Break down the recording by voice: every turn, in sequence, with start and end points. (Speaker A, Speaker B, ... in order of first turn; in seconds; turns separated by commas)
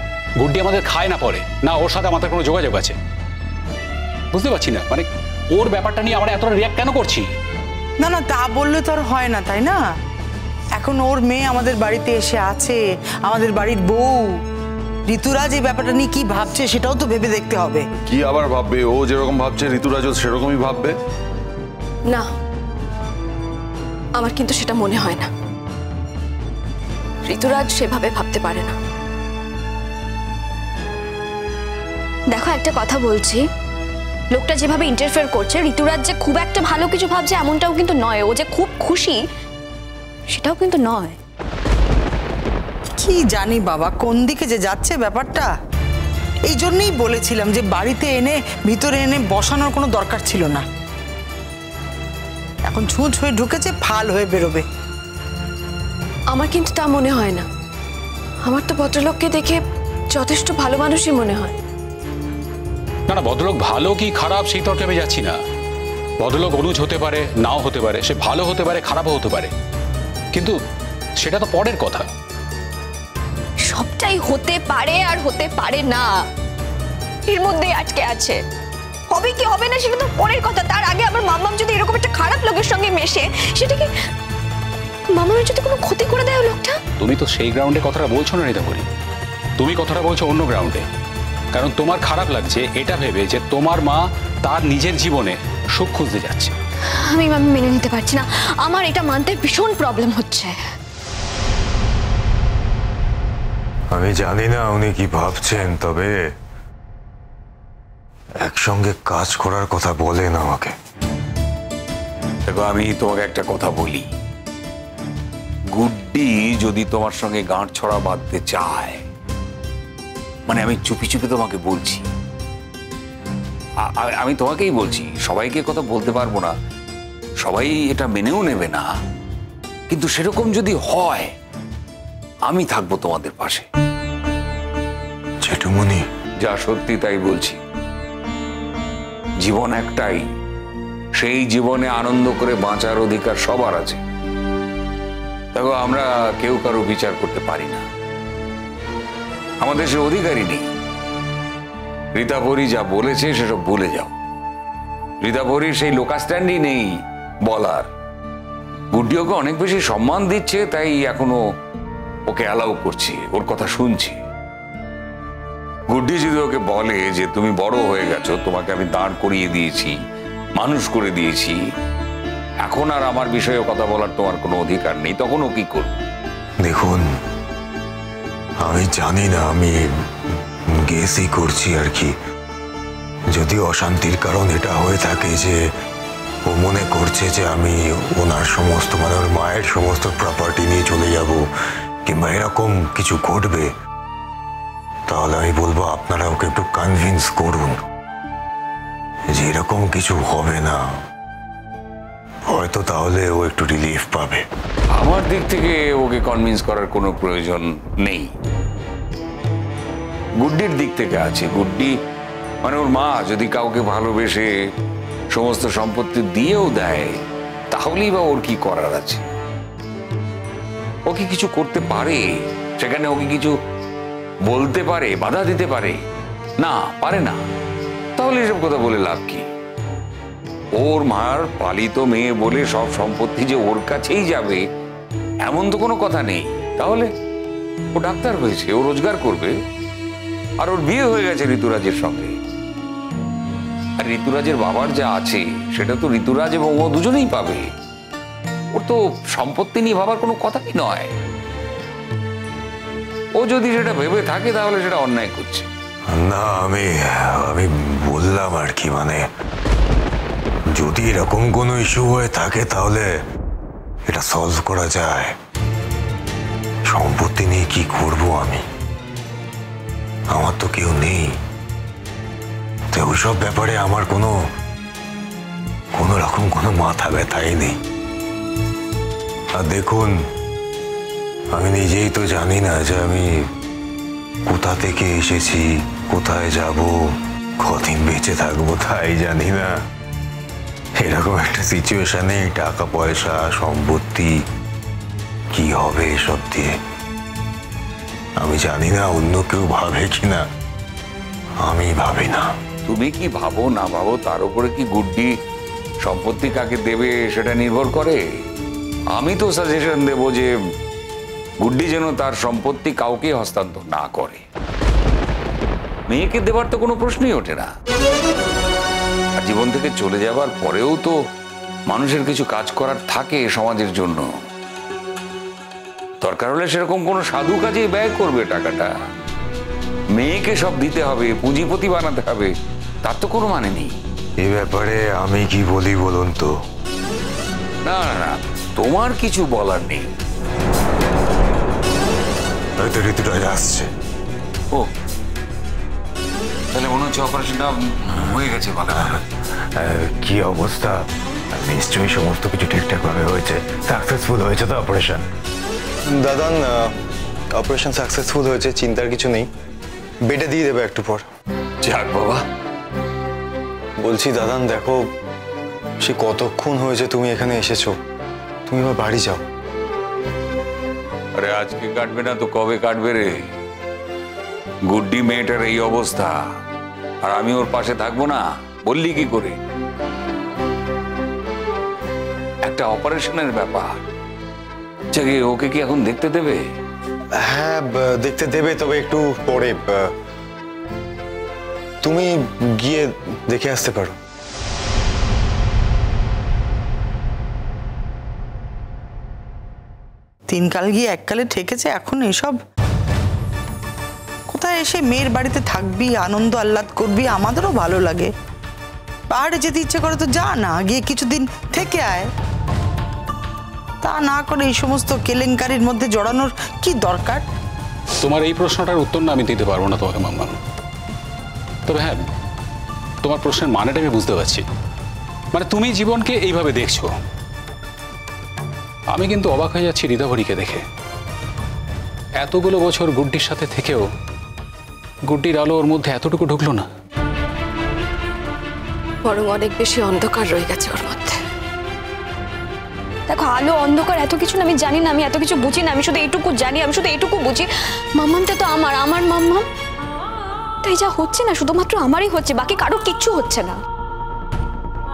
Speaker A: 0.4-3.0, Speaker A: 4.3-7.3, Speaker B: 8.0-9.8, Speaker B: 10.8-14.3, Speaker B: 15.1-17.9, Speaker C: 18.1-20.9, Speaker D: 24.2-25.3, Speaker D: 27.3-28.8, Speaker E: 32.3-33.5, Speaker E: 34.3-39.2, Speaker E: 40.3-41.2, Speaker B: 43.0-45.5, Speaker B: 46.5-50.6, Speaker B: 52.7-54.6, Speaker D: 56.3-57.5, Speaker D: 58.4-59.6, Speaker D: 60.1-61.5, Speaker A: 63.1-65.4, Speaker A: 66.2-69.5, Speaker A: 70.3-70.6, Speaker A: 71.2-72.1, Speaker E: 73.7-76.2, Speaker E: 77.3-78.4, Speaker E: 79.1-83.9, Speaker E: 85.1-86.8, Speaker A: 87.0-88.9, Speaker A: 89.6-90.9, Speaker A: 91.5-96.5, Speaker E: 97.0-100.6, Speaker F: 103.9-106.1, Speaker F: 108.4-110.7, Speaker G: 112.5-114.1, Speaker G: 115.8-119.0, Speaker G: 120.5-122.0, Speaker G: 123.8-126.5, Speaker G: 127.4-128.9, Speaker G: 129.9-131.3, Speaker G: 132.5-133.7, Speaker F: 135.4-136.0, Speaker G: 136.4-137.6, Speaker G: 139.4-140.2, Speaker G: 141.2-144.0, Speaker G: 145.5-147.8, Speaker G: 149.6-150.7, Speaker G: 152.2-154.1, Speaker G: 155.2-156.9, Speaker G: 157.5-157.9, Speaker G: 158.9-161.4, Speaker G: 162.3-164.2, Speaker G: 165.9-170.0, Speaker G: 170.6-171.6, Speaker G: 172.6-176.0, Speaker F: 176.6-177.1, Speaker F: 178.6-179.8, Speaker F: 180.7-182.1, Speaker F: 183.3-185.6, Speaker F: 186.5-191.5, Speaker F: 192.1-193.7, Speaker F: 195.1-197.8, Speaker F: 199.3-201.0, Speaker F: 202.5-204.5, Speaker G: 204.9-208.3, Speaker G: 210.4-211.9, Speaker G: 212.6-214.5, Speaker G: 215.3-217.2, Speaker G: 217.7-219.2, Speaker G: 221.1-222.3, Speaker G: 222.8-223.5, Speaker G: 224.5-226.0, Speaker G: 226.6-227.4, Speaker G: 228.2-229.5, Speaker G: 230.8-234.6, Speaker G: 235.5-237.1, Speaker G: 237.9-239.6, Speaker G: 240.6-242.3, Speaker G: 244.0-247.7, Speaker G: 248.7-251.1, Speaker G: 253.4-255.7, Speaker F: 256.1-259.2, Speaker F: 260.7-263.1, Speaker F: 264.1-265.3, Speaker F: 266.9-268.6, Speaker F: 270.3-271.3, Speaker F: 272.9-274.4, Speaker F: 275.9-277.8, Speaker F: 279.5-280.2, Speaker F: 281.5-283.5, Speaker F: 284.4-289.8, Speaker F: 291.0-294.4, Speaker F: 295.5-296.8, Speaker F: 298.4-300.4, Speaker F: 301.6-302.5, Speaker G: 302.8-305.3, Speaker G: 306.0-308.2, Speaker G: 309.1-310.5, Speaker G: 311.6-314.4, Speaker G: 316.1-317.7, Speaker G: 319.4-321.1, Speaker G: 321.9-324.3, Speaker G: 326.2-328.9, Speaker G: 330.1-332.5, Speaker G: 333.0-333.9, Speaker F: 334.4-336.5, Speaker G: 337.9-340.1, Speaker F: 342.8-343.9, Speaker G: 346.7-349.2, Speaker F: 348.9-349.2, Speaker F: 349.8-355.2, Speaker H: 356.1-356.9, Speaker H: 357.5-359.5, Speaker H: 360.2-361.2, Speaker G: 361.8-362.4, Speaker H: 364.0-365.1, Speaker H: 366.0-368.0, Speaker H: 368.7-369.4, Speaker G: 371.4-373.5, Speaker G: 374.9-376.4, Speaker G: 377.2-379.6, Speaker G: 382.6-383.9, Speaker G: 385.1-386.6, Speaker H: 387.4-390.1, Speaker H: 392.0-394.1, Speaker B: 400.5-402.6, Speaker B: 404.5-408.3, Speaker B: 409.3-412.3, Speaker B: 414.0-417.4, Speaker A: 418.2-420.6, Speaker A: 421.9-422.2, Speaker A: 423.2-424.6, Speaker A: 425.5-427.1, Speaker A: 429.1-430.8, Speaker A: 432.4-434.0, Speaker A: 435.3-436.9, Speaker D: 439.2-441.4, Speaker E: 443.3-449.7, Speaker E: 450.8-453.8